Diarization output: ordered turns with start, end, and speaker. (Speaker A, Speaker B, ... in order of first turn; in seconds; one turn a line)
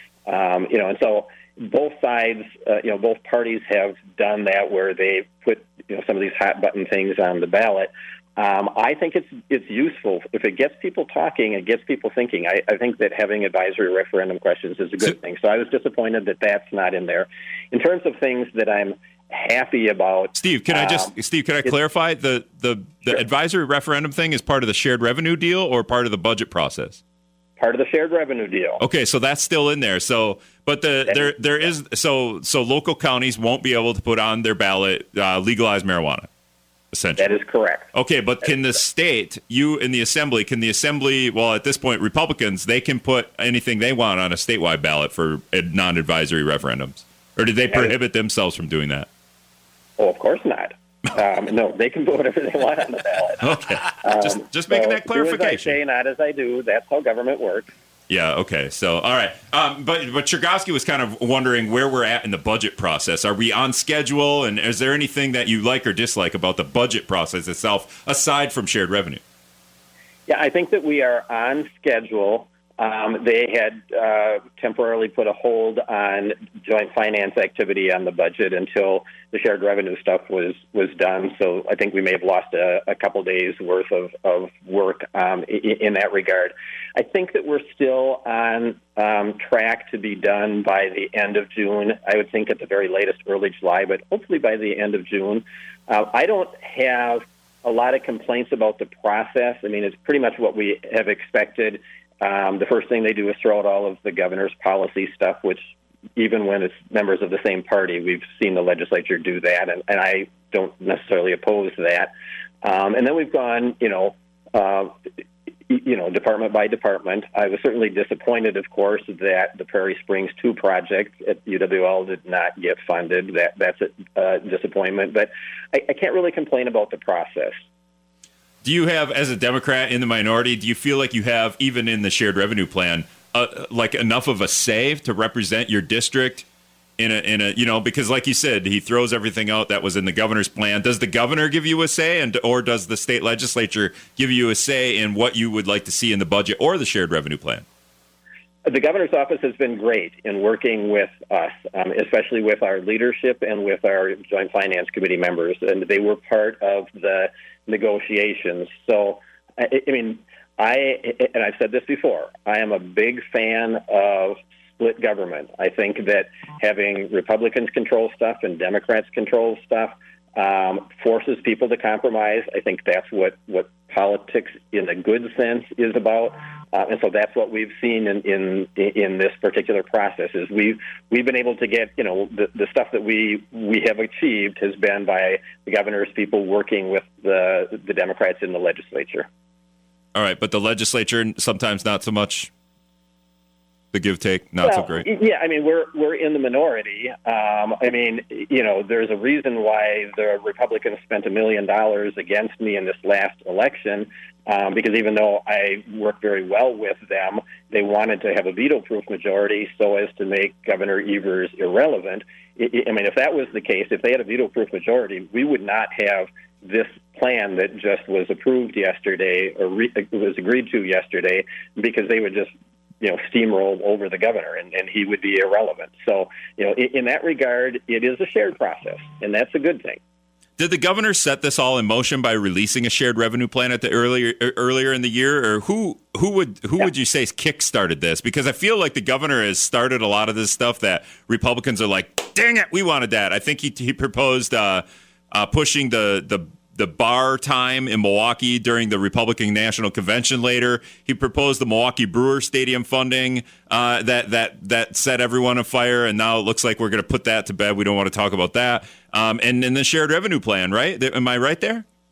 Speaker A: 0.3-21.1
Speaker B: 20.3-27.0
Speaker A: 27.6-28.8
Speaker B: 28.8-36.3
Speaker A: 31.1-31.3
Speaker B: 36.9-37.2
Speaker A: 37.2-37.9
Speaker B: 37.9-49.1
Speaker A: 50.0-57.7
Speaker B: 53.4-55.8
Speaker B: 58.1-69.2
Speaker A: 70.3-112.1
Speaker A: 112.6-115.0
Speaker A: 115.7-127.6
Speaker B: 128.6-136.4
Speaker B: 137.0-147.6
Speaker A: 148.7-189.3
Speaker B: 190.1-192.5
Speaker B: 193.9-195.1
Speaker A: 194.6-230.0
Speaker B: 230.6-261.8